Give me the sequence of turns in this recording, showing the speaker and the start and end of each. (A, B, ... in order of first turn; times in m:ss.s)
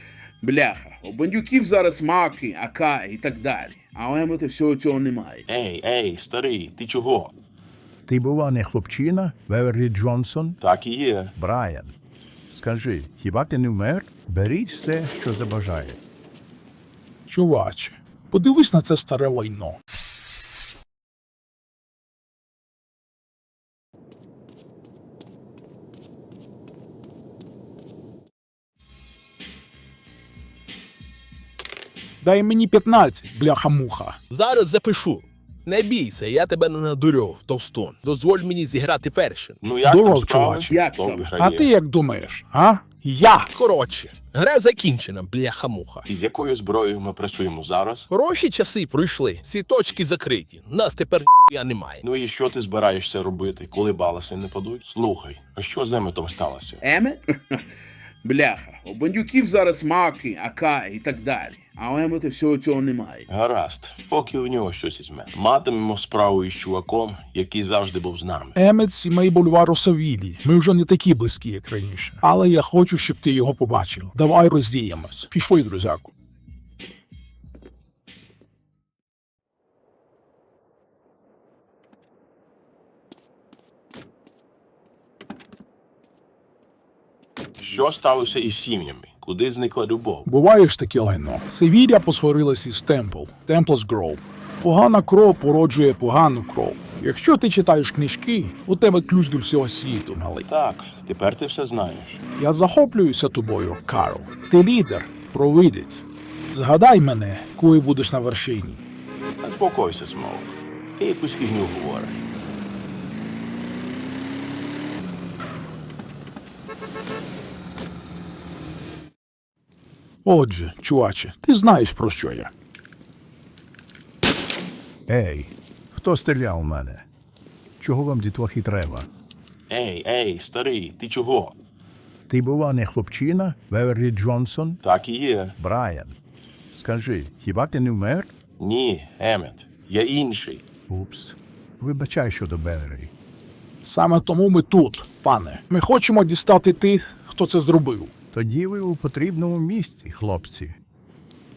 0:00.4-0:05.4 A
0:05.5-0:07.3 B
0:08.1-0:10.6 C
0:10.6-0:11.3 B
0:11.4-0:11.9 C
0:12.5-0:16.0 C
0:17.3-0:19.8 D
0:32.2-0:34.2 D
0:34.3-0:39.6 E
0:39.6-0:41.7 B
0:39.8-0:40.8 D
0:40.7-0:41.3 A
0:41.4-0:43.5 D
0:43.5-0:46.1 E
0:46.1-0:48.1 B
0:48.1-0:52.0 E
0:52.0-0:56.8 B
0:56.8-0:57.6 A
0:58.2-1:03.3 A
1:03.3-1:08.6 B
1:08.6-1:16.1 D
1:27.6-1:30.3 B
1:30.2-1:40.5 D
1:40.5-1:42.2 B
1:42.4-1:48.8 D
1:49.4-1:52.2 B
2:00.2-2:02.5 D
2:05.1-2:07.0 C
2:07.8-2:09.1 C
2:09.7-2:11.5 B
2:12.3-2:14.8 C
2:14.8-2:15.6 B
2:15.6-2:16.2 C
2:16.7-2:18.3 C
2:18.6-2:20.6 B
2:20.9-2:23.1 C
2:23.8-2:28.1 D
2:28.3-2:30.8 C